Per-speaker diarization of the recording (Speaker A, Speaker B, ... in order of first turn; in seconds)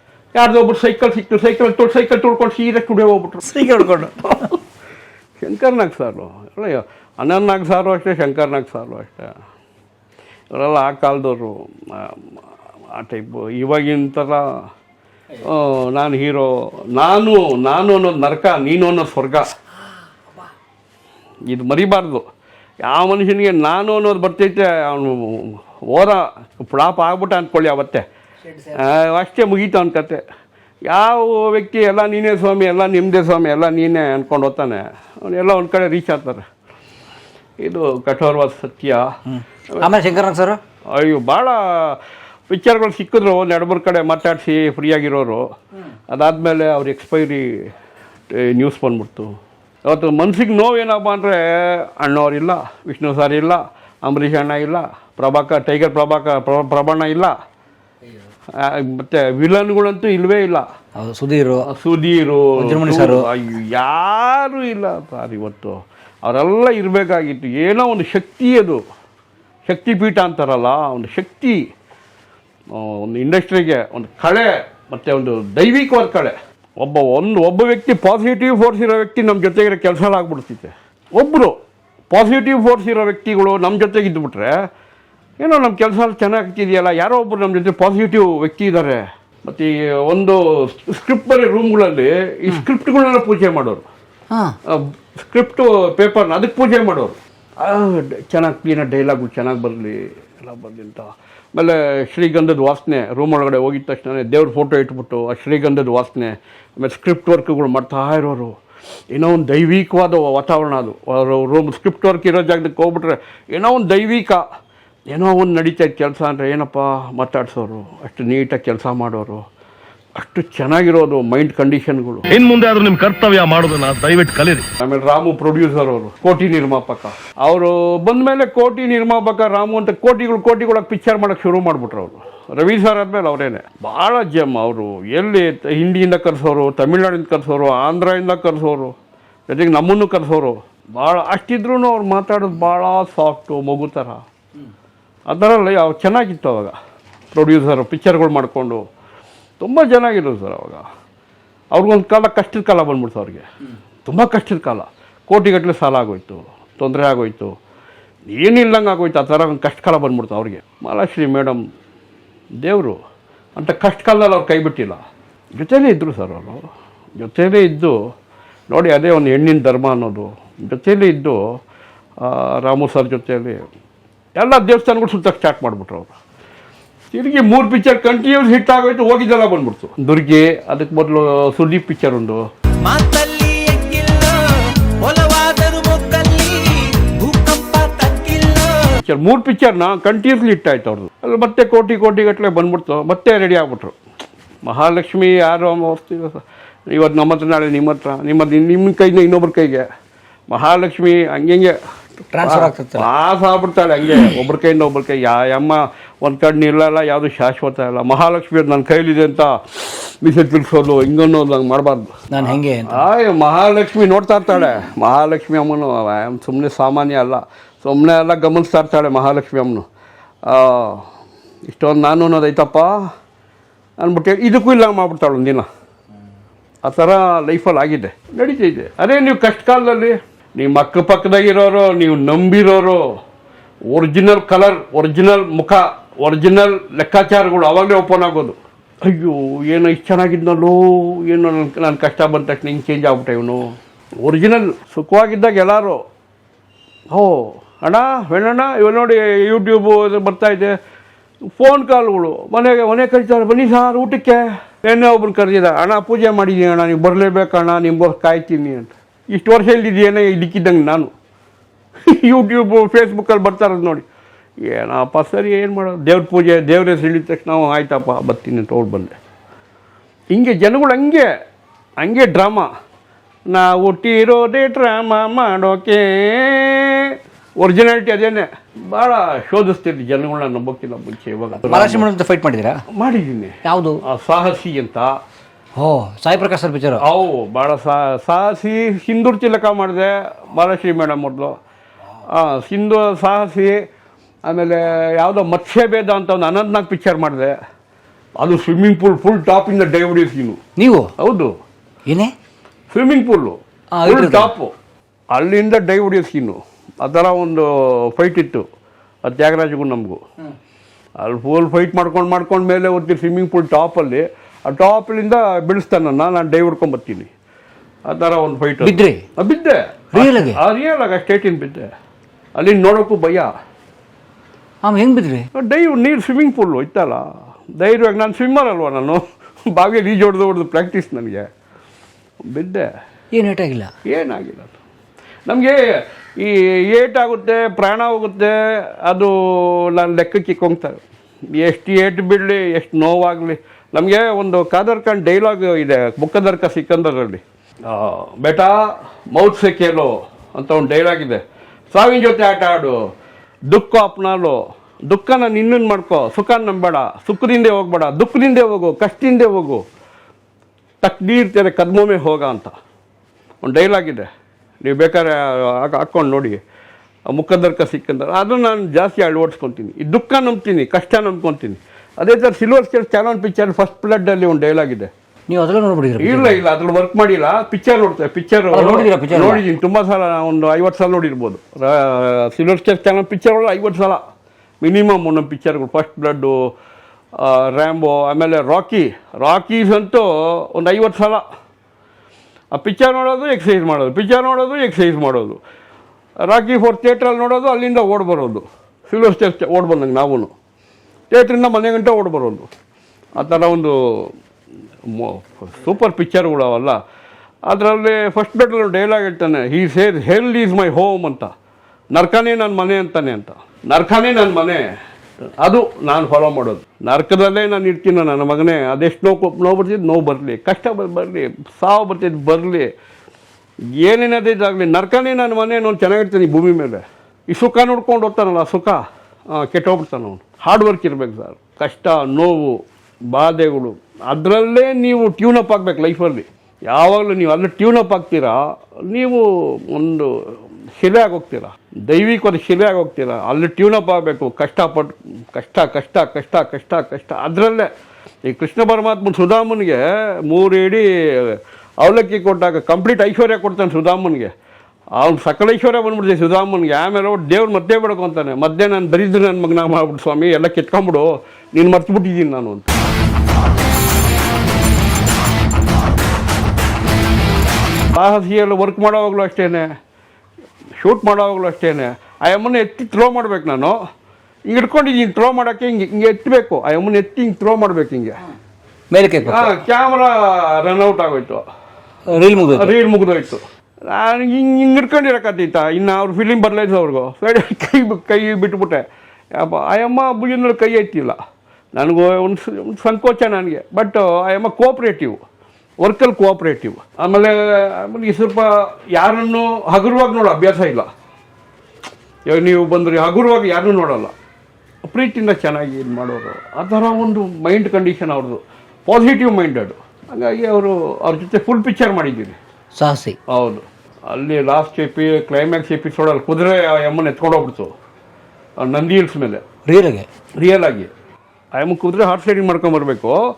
Speaker A: 0.3-4.0, 5.4-9.3, 10.5-12.2, 12.9-14.5, 15.4-19.5, 21.5-22.2, 22.8-28.0, 28.8-30.2, 30.9-36.4, 37.6-39.1, 40.9-45.5, 46.1-47.7, 48.3-49.3, 49.9-57.3, 58.6-60.7, 61.7-68.8, 69.7-71.6, 72.7-81.5, 82.1-84.5, 85.4-93.8, 94.7-108.5, 109.1-114.4, 115.1-119.4, 120.2-122.2, 124.8-138.9, 139.5-144.2, 145.3-146.7, 147.3-148.8, 149.6-150.8, 151.7-153.5, 154.1-157.5, 158.3-161.6, 162.6-163.0, 163.6-165.0, 165.6-166.6, 167.2-167.9, 168.7-171.4, 172.2-173.6, 174.4-176.1, 177.1-182.4, 189.0-193.9, 194.6-199.9, 200.5-201.8, 202.4-219.8, 220.5-221.0, 221.7-222.9, 224.0-225.7, 226.8-233.1, 233.9-246.0, 247.1-250.7, 251.6-261.1, 262.1-264.0, 264.7-269.1, 270.3-271.3, 272.0-272.7, 273.5-282.1, 282.9-283.5, 284.0-285.1, 287.0-291.5, 292.3-293.8, 294.5-297.5, 298.4-300.6, 301.2-301.5, 302.9-304.7, 305.3-308.6, 309.2-310.2, 311.2-317.3, 318.1-321.9, 322.6-323.5, 325.5-331.5, 332.5-332.9, 334.1-334.8, 335.5-335.8, 336.4-341.0, 341.5-353.0, 353.7-359.8, 361.0-362.7, 363.6-364.3, 364.8-366.6, 367.3-375.1, 376.2-384.2, 384.8-386.5, 387.4-391.4, 392.7-395.6, 396.5-400.5, 401.3-402.7, 403.4-403.9, 405.1-406.9, 407.7-411.5, 412.1-414.8, 415.6-422.9, 424.0-429.0, 429.5-432.8, 433.3-447.9, 448.4-454.5, 455.2-462.9, 468.1-469.9, 471.0-474.0, 474.7-478.3, 479.4-481.6, 482.5-489.0, 489.6-491.4, 491.9-495.4, 496.0-501.1, 502.5-504.3, 505.1-512.5, 513.5-517.9, 518.8-519.6, 520.6-521.1, 521.8-523.4
Speaker B: 3.5-4.1, 39.3-40.6, 61.0-61.7, 62.6-63.2, 202.3-203.1, 212.3-213.0, 281.6-282.8, 283.6-284.0, 285.8-287.0, 300.8-301.1, 302.1-302.3, 303.9-304.5, 318.8-319.2, 320.1-320.6, 324.8-325.5, 333.3-333.9, 375.5-376.6, 378.7-379.6, 479.1-479.8, 482.3-482.9, 512.9-513.4, 519.9-520.3
Speaker C: 122.3-124.7
Speaker D: 182.8-184.4, 185.0-188.9